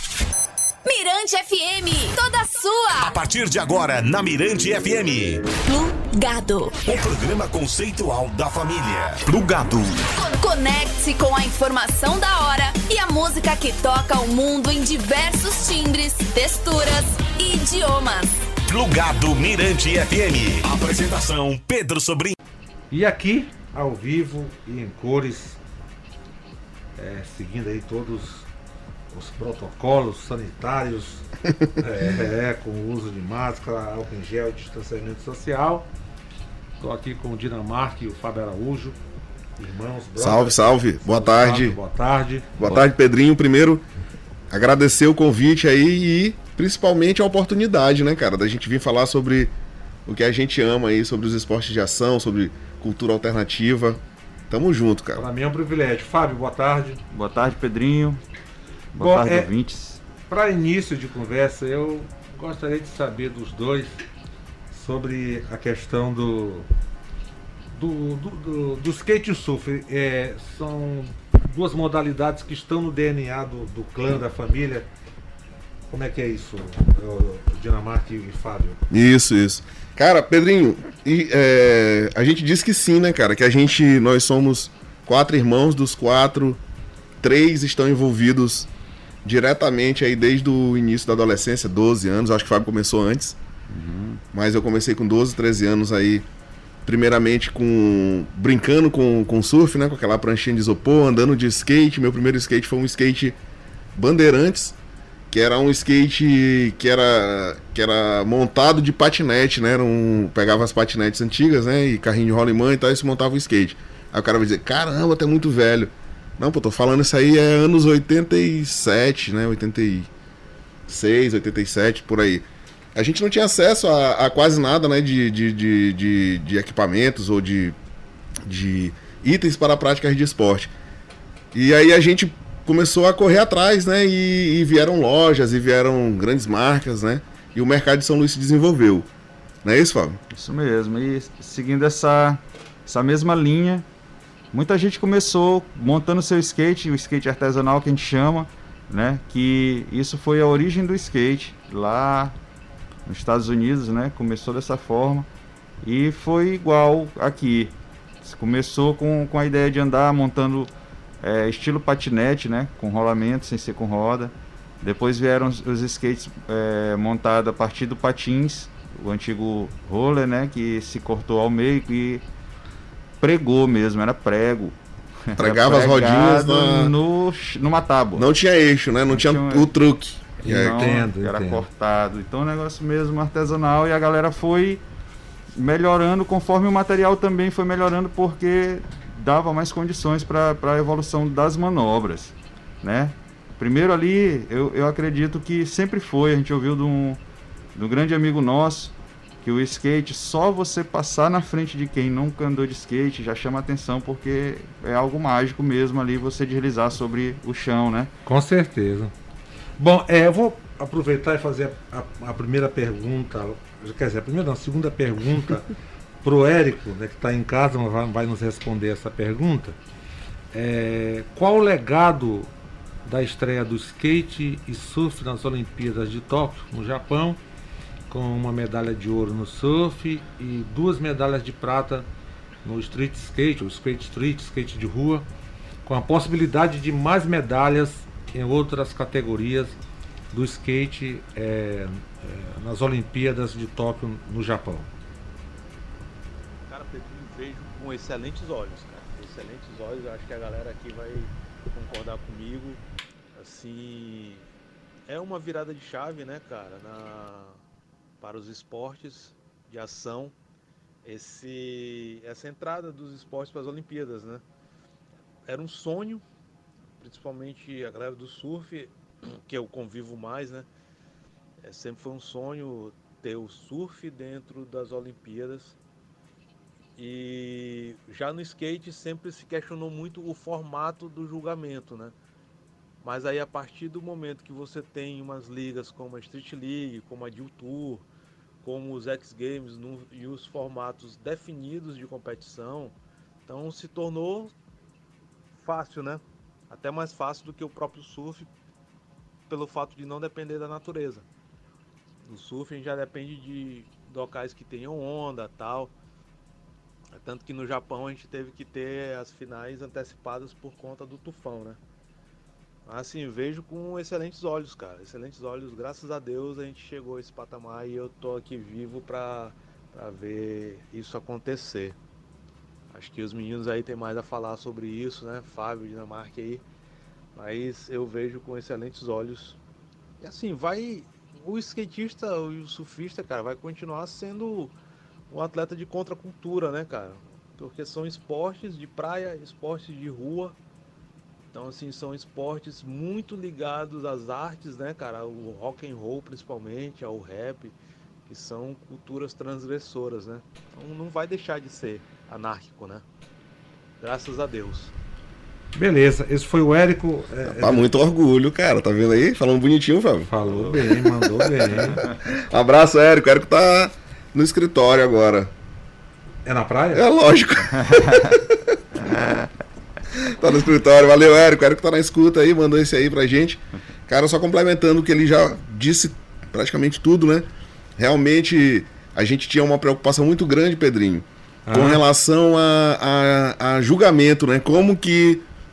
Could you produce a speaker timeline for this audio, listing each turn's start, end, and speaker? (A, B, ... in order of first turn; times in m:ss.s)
0:00.8-0:03.1 A
0:03.0-0:05.5 B
0:05.6-0:06.8 A
0:06.8-0:10.0 B
0:10.2-0:18.4 A
0:18.7-0:22.4 B
0:22.9-0:25.6 C
0:27.0-0:28.5 C
0:29.1-0:31.3 C
0:31.8-0:35.9 C
0:36.8-0:39.0 C
0:39.6-0:42.5 C
0:40.2-0:41.8 D
0:42.6-0:43.8 D
0:44.5-0:49.5 D
0:50.1-0:55.2 D
0:55.2-0:57.0 C
0:57.1-0:58.2 E
0:58.9-1:00.0 E
0:59.0-0:59.5 C
1:00.3-1:04.0 C
1:04.7-1:06.7 C
1:07.7-1:14.9 C
1:15.9-1:18.8 C
1:18.9-1:26.6 D
1:27.2-1:28.7 D
1:29.2-1:33.4 D
1:33.7-1:34.2 E
1:34.3-1:36.3 D
1:36.8-1:43.4 D
1:44.0-1:44.8 D
1:45.3-2:00.1 D
2:00.9-2:07.8 D
2:08.4-2:10.7 D
2:11.5-2:19.1 D
2:19.6-2:20.2 D
2:20.3-2:23.9 E
2:24.5-2:32.4 E
2:33.1-2:35.3 E
2:35.8-2:52.2 E
2:53.2-2:54.8 E
2:55.3-2:58.3 E
2:55.4-2:56.9 D
2:58.2-3:00.8 D
2:59.1-2:59.7 E
3:00.4-3:01.7 C
3:00.4-3:04.8 E
3:05.6-3:17.2 E
3:17.8-3:28.1 E
3:28.3-3:29.1 C
3:29.8-3:35.7 C
3:36.2-3:39.8 C
3:40.5-3:42.5 C
3:43.0-3:47.4 C
3:48.1-3:52.1 C
3:52.6-3:55.3 C
3:55.9-3:59.8 C
4:00.3-4:04.9 C
4:06.7-4:12.8 F
4:13.4-4:14.5 F
4:15.1-4:17.6 F
4:18.2-4:20.4 F
4:21.0-4:24.4 F
4:25.5-4:26.2 F
4:27.0-4:30.7 F
4:31.6-4:35.8 F
4:37.0-4:42.1 F
4:43.0-4:48.0 F
4:48.6-4:53.0 F
4:53.5-4:54.5 F
4:55.6-4:58.5 F
4:59.5-5:01.3 F
5:02.2-5:05.9 F
5:07.1-5:11.8 F
5:12.9-5:22.0 F
5:22.9-5:26.6 F
5:27.4-5:29.6 F
5:30.2-5:34.7 F
5:35.3-5:40.6 F
5:41.5-5:47.8 F
5:48.3-5:53.0 F
5:54.0-5:54.9 F
5:55.8-5:57.9 C
5:57.4-6:05.5 D
6:00.3-6:02.0 C
6:06.5-6:07.1 C
6:07.0-6:09.1 D
6:10.1-6:25.4 D
6:21.7-6:22.0 C